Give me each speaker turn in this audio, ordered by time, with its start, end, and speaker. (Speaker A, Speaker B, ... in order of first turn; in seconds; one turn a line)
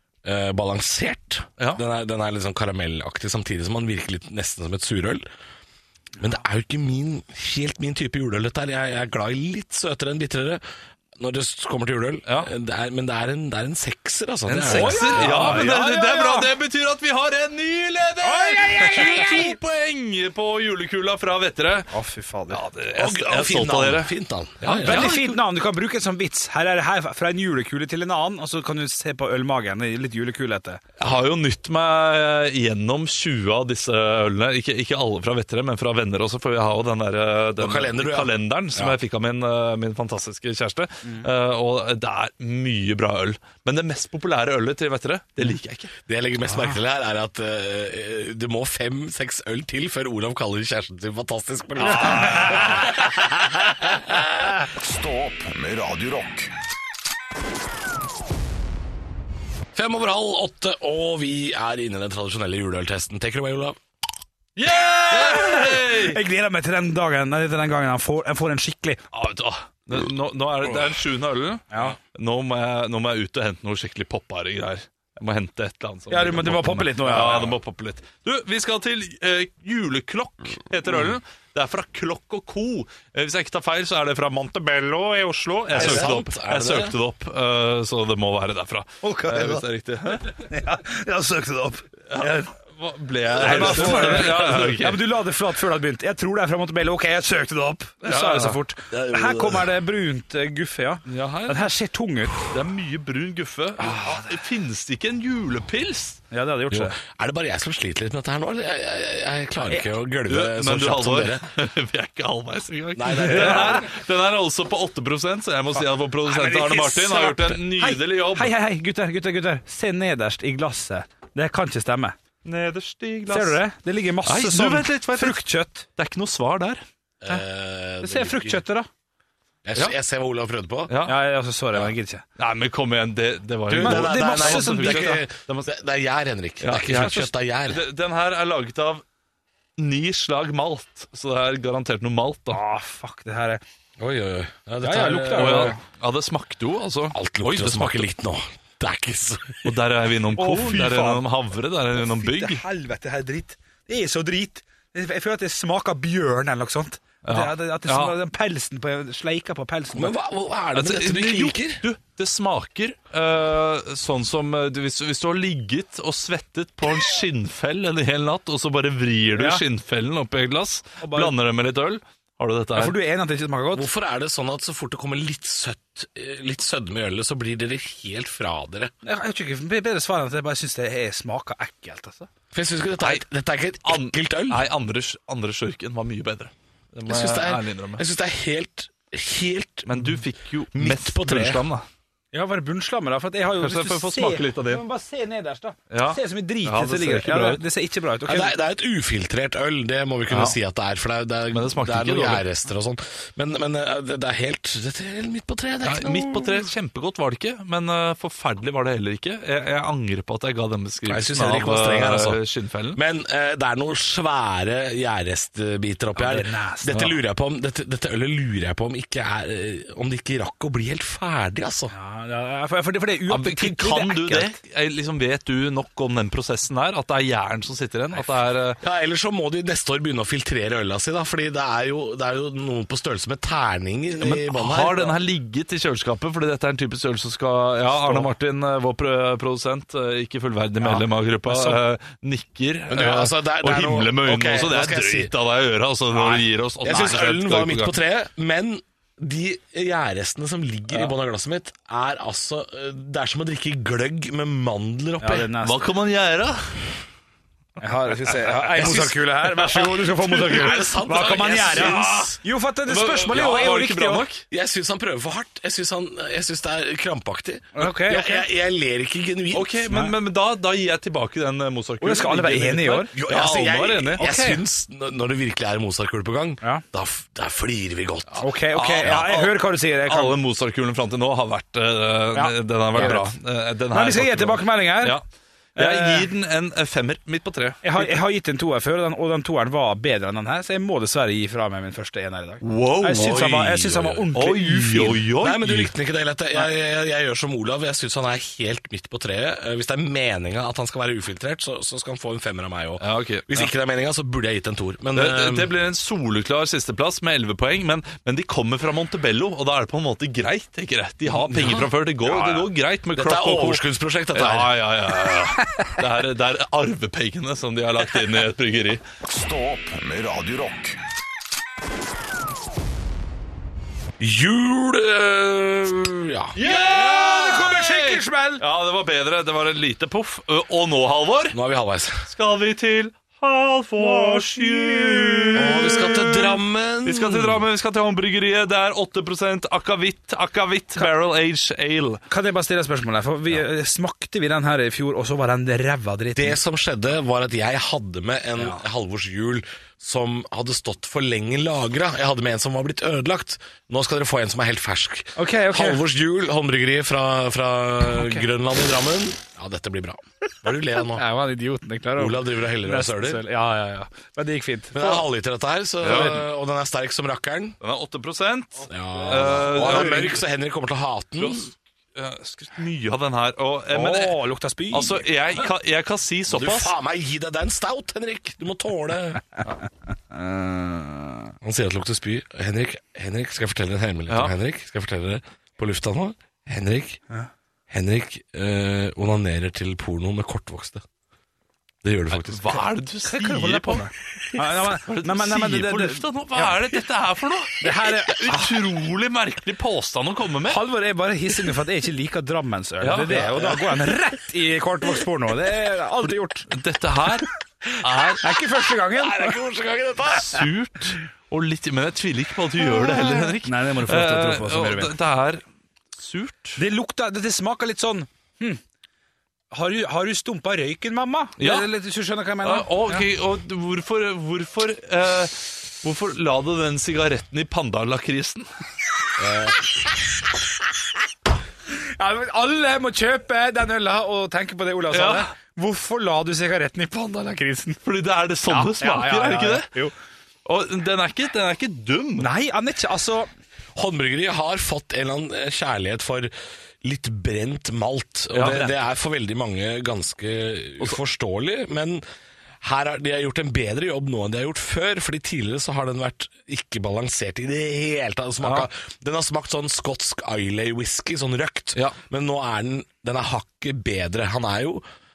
Speaker A: 0.2-5.2
Speaker A: 6.2-10.6
Speaker A: 11.2-15.7
Speaker B: 14.5-21.9
Speaker C: 14.6-16.5
Speaker C: 18.2-19.6
Speaker C: 21.9-22.6
Speaker B: 22.5-25.4
Speaker A: 22.9-25.1
Speaker C: 24.8-30.8
Speaker B: 31.0-45.9
Speaker A: 37.6-39.0
Speaker A: 46.1-54.5
Speaker C: 46.5-46.8
Speaker C: 51.8-53.0
Speaker B: 52.0-52.7
Speaker D: 54.6-56.5
Speaker A: 59.8-63.8
Speaker B: 64.6-66.2
Speaker C: 65.1-69.0
Speaker B: 69.1-90.4
Speaker C: 71.7-72.0
Speaker C: 76.1-77.5
Speaker A: 85.7-87.0
Speaker C: 85.8-86.1
Speaker C: 89.0-89.6
Speaker C: 90.3-92.5
Speaker B: 92.1-95.0
Speaker C: 93.3-102.4
Speaker B: 98.0-98.6
Speaker A: 98.9-99.7
Speaker B: 101.1-101.6
Speaker B: 102.4-106.2
Speaker C: 103.8-104.3
Speaker C: 106.3-107.0
Speaker A: 106.7-111.5
Speaker B: 110.3-118.5
Speaker A: 113.0-113.9
Speaker C: 113.1-113.9
Speaker C: 115.8-122.2
Speaker A: 116.4-116.8
Speaker B: 122.5-123.6
Speaker C: 123.3-125.9
Speaker B: 124.2-126.8
Speaker A: 127.2-128.6
Speaker C: 128.0-128.9
Speaker A: 129.6-130.9
Speaker B: 130.9-131.2
Speaker C: 131.1-132.2
Speaker B: 132.4-135.7
Speaker A: 133.7-137.8
Speaker C: 133.8-135.2
Speaker B: 136.6-139.0
Speaker B: 139.8-142.6
Speaker C: 142.5-143.6
Speaker A: 144.0-145.8
Speaker C: 144.8-145.8
Speaker B: 145.3-148.1
Speaker A: 147.1-149.8
Speaker B: 149.6-152.6
Speaker C: 150.4-151.2
Speaker C: 152.0-160.1
Speaker B: 157.2-158.2
Speaker A: 159.9-161.8
Speaker B: 160.8-173.0
Speaker C: 169.3-169.6
Speaker C: 171.0-171.3
Speaker C: 172.8-173.9
Speaker A: 173.7-178.9
Speaker C: 179.0-182.3
Speaker A: 182.5-184.7
Speaker B: 183.8-188.0
Speaker A: 187.1-190.2
Speaker B: 189.9-191.9
Speaker A: 190.7-191.7
Speaker C: 192.3-198.6
Speaker B: 193.6-194.8
Speaker B: 195.9-197.6
Speaker A: 198.3-206.6
Speaker B: 200.3-200.6
Speaker B: 201.5-202.4
Speaker B: 205.8-213.0
Speaker A: 211.1-212.4
Speaker A: 212.9-221.9
Speaker C: 216.2-217.1
Speaker C: 221.9-224.6
Speaker B: 223.3-228.8
Speaker A: 228.8-235.2
Speaker B: 234.2-247.9
Speaker C: 240.8-241.8
Speaker A: 242.9-245.3
Speaker A: 246.1-255.5
Speaker C: 255.2-255.8
Speaker B: 255.6-256.8
Speaker C: 257.8-264.3
Speaker A: 258.7-262.4
Speaker B: 258.8-259.1
Speaker B: 259.8-260.7
Speaker B: 261.6-262.3
Speaker B: 262.9-264.4
Speaker A: 264.5-269.9
Speaker C: 267.8-268.5
Speaker B: 269.5-274.2
Speaker C: 272.0-273.1
Speaker A: 273.1-278.5
Speaker C: 274.2-274.6
Speaker B: 278.4-285.2
Speaker C: 278.4-280.4
Speaker C: 282.3-283.4
Speaker C: 283.9-285.2
Speaker C: 285.8-286.3
Speaker B: 285.8-288.2
Speaker C: 287.8-295.2
Speaker B: 292.6-293.6
Speaker A: 293.2-294.3
Speaker B: 294.3-295.9
Speaker A: 295.4-305.7
Speaker B: 303.0-303.7
Speaker B: 305.1-319.0
Speaker A: 311.3-314.8
Speaker C: 315.6-315.9
Speaker D: 319.2-321.0
Speaker A: 324.2-326.6
Speaker B: 326.6-331.6
Speaker C: 326.6-328.6
Speaker A: 331.5-332.3
Speaker B: 332.3-342.2
Speaker C: 334.0-336.0
Speaker A: 335.6-337.7
Speaker C: 342.3-346.6
Speaker A: 346.4-361.2
Speaker C: 348.6-348.8
Speaker C: 355.4-356.0
Speaker C: 358.1-358.5
Speaker C: 361.0-365.2
Speaker A: 362.2-363.4
Speaker A: 364.9-367.8
Speaker B: 366.0-366.4
Speaker B: 367.8-370.4
Speaker A: 368.9-371.7
Speaker C: 369.2-370.4
Speaker B: 371.4-374.4
Speaker C: 373.9-375.2
Speaker B: 374.9-376.9
Speaker A: 376.5-379.4
Speaker C: 380.3-381.5
Speaker A: 381.6-387.2
Speaker A: 387.9-391.0
Speaker A: 392.0-392.9
Speaker B: 392.3-400.8
Speaker C: 393.2-396.9
Speaker C: 397.8-398.8
Speaker C: 400.7-406.7
Speaker B: 403.0-403.7
Speaker A: 403.3-403.9
Speaker B: 406.7-408.4
Speaker C: 408.4-409.6
Speaker A: 409.1-410.7
Speaker B: 410.3-415.6
Speaker C: 412.9-415.1
Speaker B: 416.2-416.8
Speaker C: 416.8-418.8
Speaker C: 419.7-423.3
Speaker B: 421.6-421.9
Speaker B: 422.6-428.7
Speaker A: 429.4-429.8
Speaker C: 431.9-438.0
Speaker B: 435.1-435.5
Speaker B: 438.0-439.9
Speaker C: 438.7-440.1
Speaker B: 440.6-442.5
Speaker C: 442.4-443.5
Speaker A: 444.0-452.2
Speaker B: 448.5-448.9
Speaker A: 452.8-465.0
Speaker B: 458.6-458.9